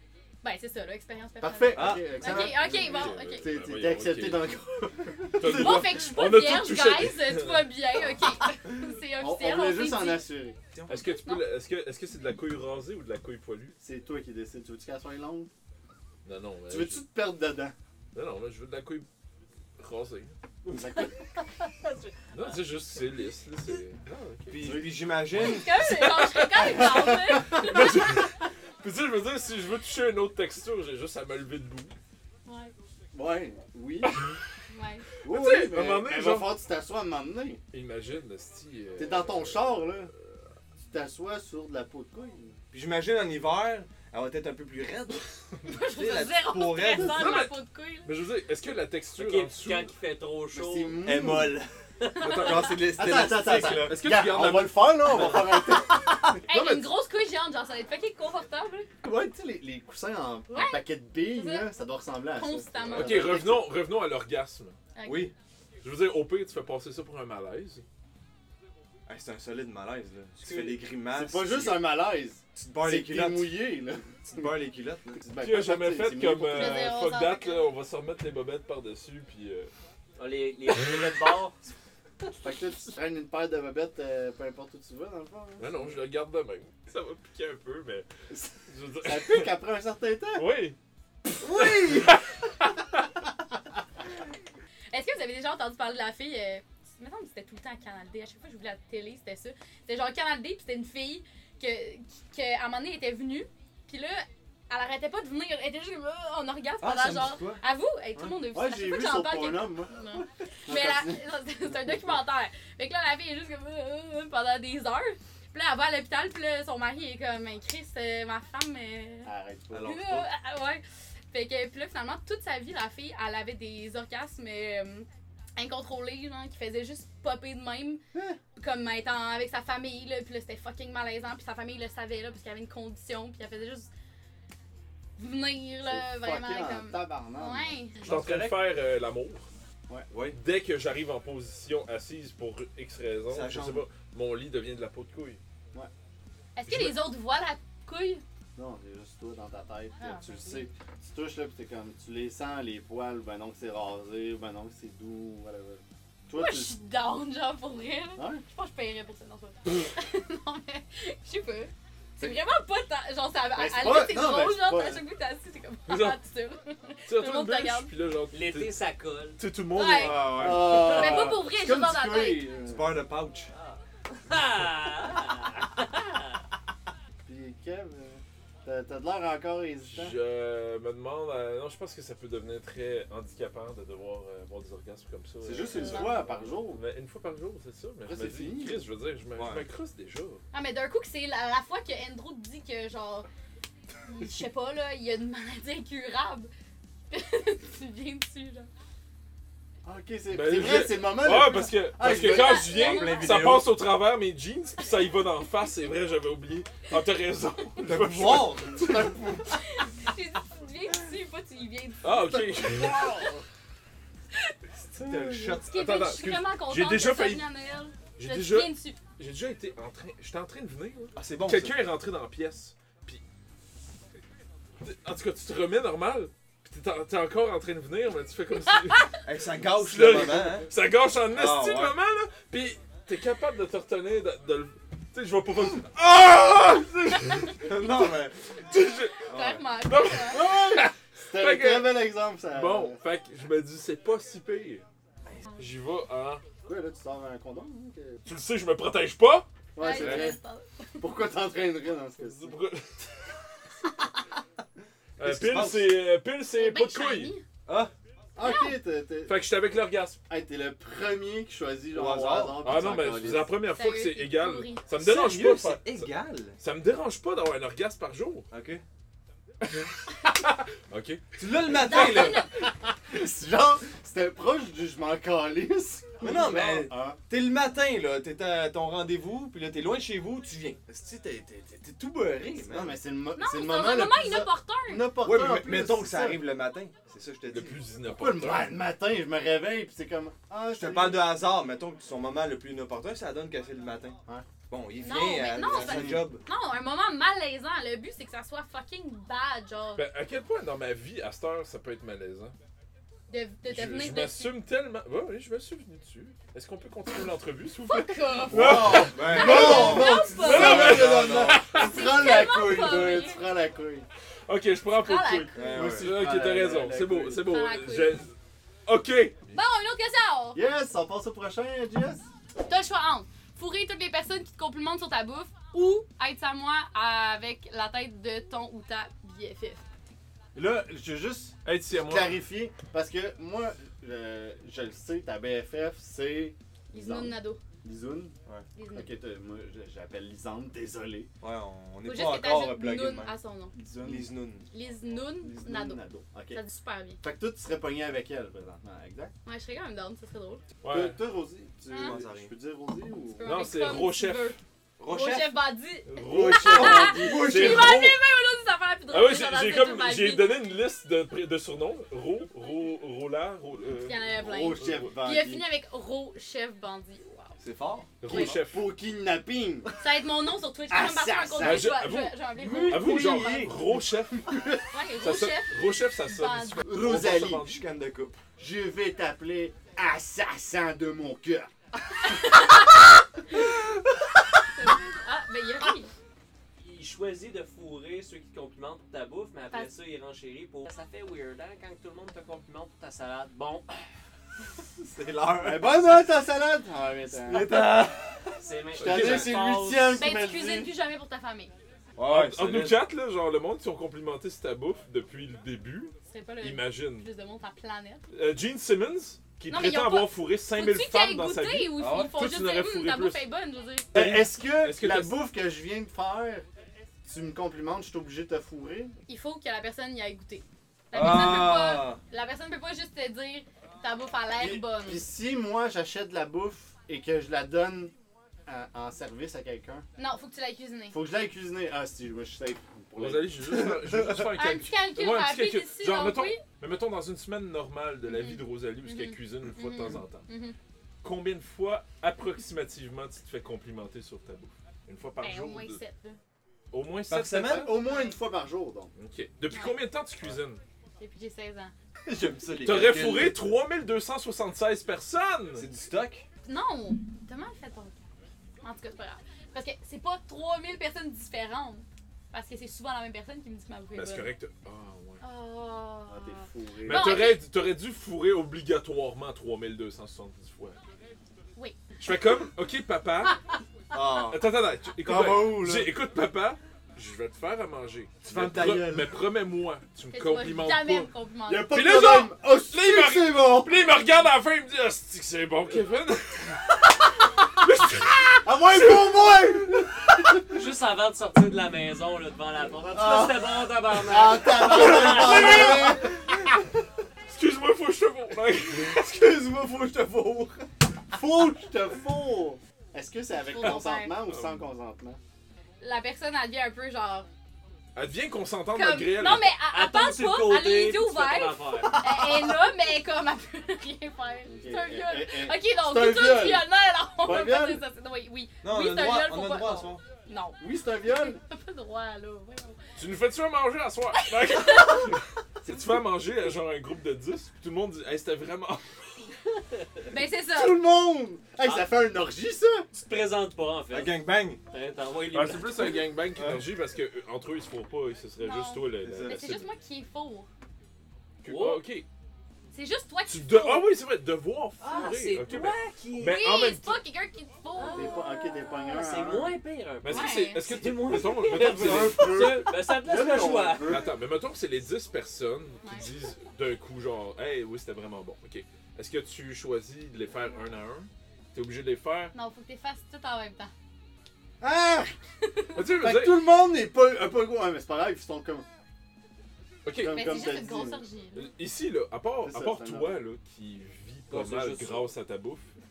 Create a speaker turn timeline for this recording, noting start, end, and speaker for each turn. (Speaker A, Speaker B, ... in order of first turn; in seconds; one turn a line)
Speaker A: 0.4-3.5
Speaker B: 1.4-5.7
Speaker C: 1.7-2.7
Speaker D: 2.6-4.5
Speaker D: 5.4-7.7
Speaker C: 5.4-5.8
Speaker A: 5.4-10.3
Speaker B: 9.2-10.6
Speaker C: 10.7-11.1
Speaker D: 10.9-13.8
Speaker B: 13.8-15.5
Speaker D: 16.2-17.0
Speaker B: 16.7-17.8
Speaker D: 18.1-19.1
Speaker D: 19.8-20.3
Speaker B: 20.7-21.1
Speaker D: 22.3-24.6
Speaker C: 24.5-25.7
Speaker B: 24.5-24.9
Speaker A: 25.4-28.1
Speaker D: 25.9-31.9
Speaker B: 26.6-27.4
Speaker A: 32.5-32.7
Speaker B: 33.1-34.2
Speaker D: 34.0-34.4
Speaker A: 34.7-35.1
Speaker B: 35.2-37.6
Speaker D: 35.2-36.5
Speaker D: 37.7-39.9
Speaker B: 39.0-40.1
Speaker B: 40.8-42.6
Speaker C: 42.7-47.4
Speaker A: 45.6-48.1
Speaker D: 46.9-49.9
Speaker E: 49.2-51.0
Speaker B: 50.5-51.6
Speaker C: 51.0-54.0
Speaker E: 52.0-52.6
Speaker A: 52.3-52.7
Speaker B: 52.9-56.4
Speaker D: 53.5-55.5
Speaker C: 55.1-55.4
Speaker A: 56.5-58.9
Speaker D: 56.5-56.8
Speaker B: 59.0-63.7
Speaker A: 60.5-61.7
Speaker A: 62.4-63.4
Speaker D: 62.9-64.8
Speaker A: 64.9-65.3
Speaker C: 65.0-65.3
Speaker D: 65.8-67.8
Speaker C: 69.1-71.9
Speaker B: 70.4-74.6
Speaker C: 72.5-73.6
Speaker C: 74.2-75.2
Speaker B: 75.1-76.9
Speaker D: 75.4-79.7
Speaker A: 76.5-77.7
Speaker E: 80.2-81.6
Speaker B: 82.4-85.7
Speaker D: 85.6-88.1
Speaker D: 88.7-89.5
Speaker B: 89.0-90.5
Speaker D: 90.3-90.8
Speaker C: 91.4-92.1
Speaker B: 91.5-92.1
Speaker D: 91.6-92.8
Speaker A: 94.9-119.3
Speaker C: 106.8-107.6
Speaker B: 108.5-109.9
Speaker B: 110.7-111.2
Speaker B: 119.2-120.0
Speaker C: 119.7-120.3
Speaker A: 119.8-128.0
Speaker A: 128.6-133.9
Speaker A: 135.2-138.0
Speaker B: 135.8-137.7
Speaker D: 138.0-139.5
Speaker C: 138.1-138.6
Speaker C: 140.1-140.4
Speaker D: 140.3-145.4
Speaker C: 143.3-143.8
Speaker A: 146.6-148.2
Speaker D: 146.7-147.1
Speaker B: 148.6-156.7
Speaker A: 150.0-150.7
Speaker A: 156.3-167.9
Speaker B: 158.2-158.4
Speaker B: 163.6-165.0
Speaker D: 165.9-166.2
Speaker D: 167.1-168.7
Speaker E: 168.3-169.4
Speaker D: 169.4-170.6
Speaker A: 169.7-172.6
Speaker C: 169.9-171.4
Speaker B: 170.3-173.0
Speaker C: 172.7-173.5
Speaker E: 173.5-176.2
Speaker B: 177.2-180.2
Speaker D: 179.8-190.4
Speaker B: 185.4-186.8
Speaker A: 185.7-186.2
Speaker B: 188.1-188.8
Speaker C: 189.4-189.7
Speaker A: 190.5-193.3
Speaker A: 194.1-196.5
Speaker A: 197.1-198.7
Speaker B: 199.8-202.7
Speaker D: 200.3-209.5
Speaker C: 202.1-203.7
Speaker A: 202.1-203.6
Speaker C: 207.8-209.2
Speaker A: 209.5-213.2
Speaker D: 212.0-213.0
Speaker B: 212.8-213.4
Speaker C: 214.9-215.7
Speaker D: 215.5-217.4
Speaker A: 215.7-219.0
Speaker D: 218.2-223.2
Speaker C: 221.2-221.8
Speaker D: 224.8-229.1
Speaker C: 229.2-230.7
Speaker D: 229.7-238.1
Speaker C: 231.3-231.9
Speaker C: 237.6-238.3
Speaker D: 238.6-239.2
Speaker C: 239.3-239.6
Speaker A: 239.3-240.4
Speaker D: 239.8-244.8
Speaker B: 240.3-243.0
Speaker D: 245.6-246.4
Speaker B: 246.7-248.2
Speaker D: 248.3-249.5
Speaker B: 249.8-250.4
Speaker A: 249.8-251.0
Speaker D: 250.0-250.3
Speaker B: 251.0-252.6
Speaker D: 252.2-252.9
Speaker D: 255.2-257.3
Speaker C: 255.2-255.9
Speaker A: 256.5-257.4
Speaker C: 257.7-257.9
Speaker B: 258.4-259.4
Speaker A: 258.4-258.7
Speaker D: 259.3-260.2
Speaker B: 260.3-263.5
Speaker C: 261.9-262.6
Speaker D: 262.6-268.5
Speaker A: 263.8-264.8
Speaker C: 265.0-266.6
Speaker C: 268.5-268.8
Speaker D: 269.6-271.2
Speaker C: 271.4-272.5
Speaker A: 271.9-272.5
Speaker B: 271.9-277.2
Speaker C: 276.2-283.0
Speaker B: 282.5-286.4
Speaker A: 283.4-285.1
Speaker C: 285.2-287.8
Speaker D: 287.5-288.8
Speaker B: 288.1-291.4
Speaker C: 290.8-296.4
Speaker A: 295.0-300.0
Speaker B: 295.6-296.4
Speaker D: 300.0-302.6
Speaker A: 303.3-304.5
Speaker D: 303.7-312.3
Speaker A: 307.8-311.0
Speaker C: 308.5-311.6
Speaker B: 308.9-314.1
Speaker A: 311.7-313.5
Speaker D: 314.5-318.3
Speaker A: 315.0-315.7
Speaker C: 315.5-316.2
Speaker B: 315.7-317.5
Speaker A: 317.5-318.1
Speaker D: 318.9-319.4
Speaker A: 319.5-320.6
Speaker B: 320.6-322.3
Speaker A: 322.7-329.8
Speaker B: 330.6-338.4
Speaker D: 331.6-332.4
Speaker A: 336.9-337.6
Speaker A: 338.8-339.1
Speaker B: 338.9-341.3
Speaker C: 341.4-343.3
Speaker A: 342.1-343.7
Speaker B: 343.7-344.3
Speaker C: 344.0-344.7
Speaker A: 344.7-346.0
Speaker B: 345.4-346.6
Speaker A: 346.5-347.2
Speaker B: 347.2-349.3
Speaker A: 349.5-350.6
Speaker D: 350.8-351.2
Speaker B: 350.9-353.6
Speaker A: 351.9-352.2
Speaker C: 351.9-352.5
Speaker A: 353.4-360.6
Speaker D: 353.4-354.6
Speaker C: 355.0-355.6
Speaker D: 356.1-358.2
Speaker C: 356.2-358.1
Speaker D: 359.1-365.1
Speaker A: 364.0-367.6
Speaker B: 364.4-365.6
Speaker C: 367.6-368.5
Speaker D: 368.2-368.9
Speaker B: 368.3-369.9
Speaker A: 370.0-373.7
Speaker B: 370.9-371.9
Speaker D: 371.6-374.5
Speaker C: 372.6-373.7
Speaker B: 373.1-373.8
Speaker B: 374.4-374.8
Speaker A: 374.9-375.8
Speaker D: 375.2-377.8
Speaker A: 376.3-376.9
Speaker B: 376.8-377.7
Speaker C: 377.0-378.4
Speaker B: 378.6-381.7
Speaker A: 382.4-382.7
Speaker A: 384.8-386.1
Speaker E: 386.8-393.8
Speaker C: 395.0-396.2
Speaker B: 395.6-398.0
Speaker C: 397.4-399.5
Speaker E: 398.6-400.1
Speaker B: 399.0-400.9
Speaker D: 399.0-399.5
Speaker A: 400.2-401.7
Speaker C: 402.2-403.0
Speaker D: 402.3-407.3
Speaker A: 406.3-408.2
Speaker D: 408.3-413.4
Speaker A: 409.7-414.1
Speaker C: 412.0-412.3
Speaker D: 414.1-415.4
Speaker B: 414.1-416.7
Speaker B: 417.2-419.2
Speaker A: 419.3-425.2
Speaker C: 421.1-422.2
Speaker B: 424.6-428.1
Speaker B: 428.7-430.1
Speaker A: 430.2-431.2
Speaker B: 431.1-433.8
Speaker D: 433.2-440.5
Speaker A: 434.6-436.6
Speaker A: 438.3-440.8
Speaker D: 441.2-446.0
Speaker A: 445.4-446.4
Speaker D: 446.9-447.9
Speaker C: 447.3-447.9
Speaker B: 447.6-449.1
Speaker A: 448.0-448.4
Speaker D: 449.2-450.8
Speaker A: 449.7-450.0
Speaker A: 451.2-451.9
Speaker C: 452.3-453.6
Speaker D: 452.8-455.9
Speaker C: 455.8-456.4
Speaker A: 456.7-458.2
Speaker A: 458.8-464.5
Speaker D: 464.1-465.4
Speaker A: 465.4-467.6
Speaker B: 466.3-467.4
Speaker D: 467.1-471.0
Speaker D: 472.2-473.6
Speaker C: 474.1-474.6
Speaker D: 474.5-481.3
Speaker C: 475.2-476.1
Speaker C: 478.5-479.3
Speaker A: 480.3-481.9
Speaker B: 481.7-483.9
Speaker D: 481.9-486.9
Speaker D: 487.8-489.4
Speaker B: 488.6-490.6
Speaker E: 490.7-496.0
Speaker B: 493.1-496.4
Speaker D: 495.2-496.1
Speaker D: 497.5-499.2
Speaker C: 499.0-500.9
Speaker B: 501.3-505.4
Speaker A: 503.7-504.4
Speaker D: 504.5-504.8
Speaker A: 506.0-507.5
Speaker D: 508.1-509.8
Speaker A: 508.9-523.0
Speaker E: 509.9-512.2
Speaker C: 512.1-512.7
Speaker B: 514.7-516.9
Speaker B: 517.4-518.0
Speaker C: 518.8-520.2
Speaker B: 520.8-521.6
Speaker D: 523.2-529.5
Speaker A: 524.4-525.3
Speaker A: 530.3-531.0
Speaker B: 530.7-533.1
Speaker E: 531.8-532.1
Speaker E: 533.1-534.4
Speaker C: 534.1-534.8
Speaker E: 534.9-536.2
Speaker D: 535.5-539.9
Speaker C: 536.5-536.9
Speaker A: 538.6-540.7
Speaker C: 539.2-539.8
Speaker D: 541.6-542.3
Speaker E: 541.7-542.0
Speaker A: 542.9-544.1
Speaker D: 543.5-547.2
Speaker E: 545.0-546.6
Speaker A: 546.4-548.4
Speaker E: 548.0-554.2
Speaker B: 548.1-549.8
Speaker D: 550.2-552.9
Speaker A: 550.3-550.8
Speaker C: 551.3-553.1
Speaker B: 551.8-554.3
Speaker D: 554.0-562.5
Speaker A: 562.5-563.9
Speaker B: 564.8-565.4
Speaker D: 565.9-566.7
Speaker B: 566.2-568.9
Speaker D: 570.0-570.7
Speaker B: 570.2-571.2
Speaker A: 570.3-571.7
Speaker D: 571.5-575.9
Speaker B: 572.6-573.4
Speaker C: 574.5-575.0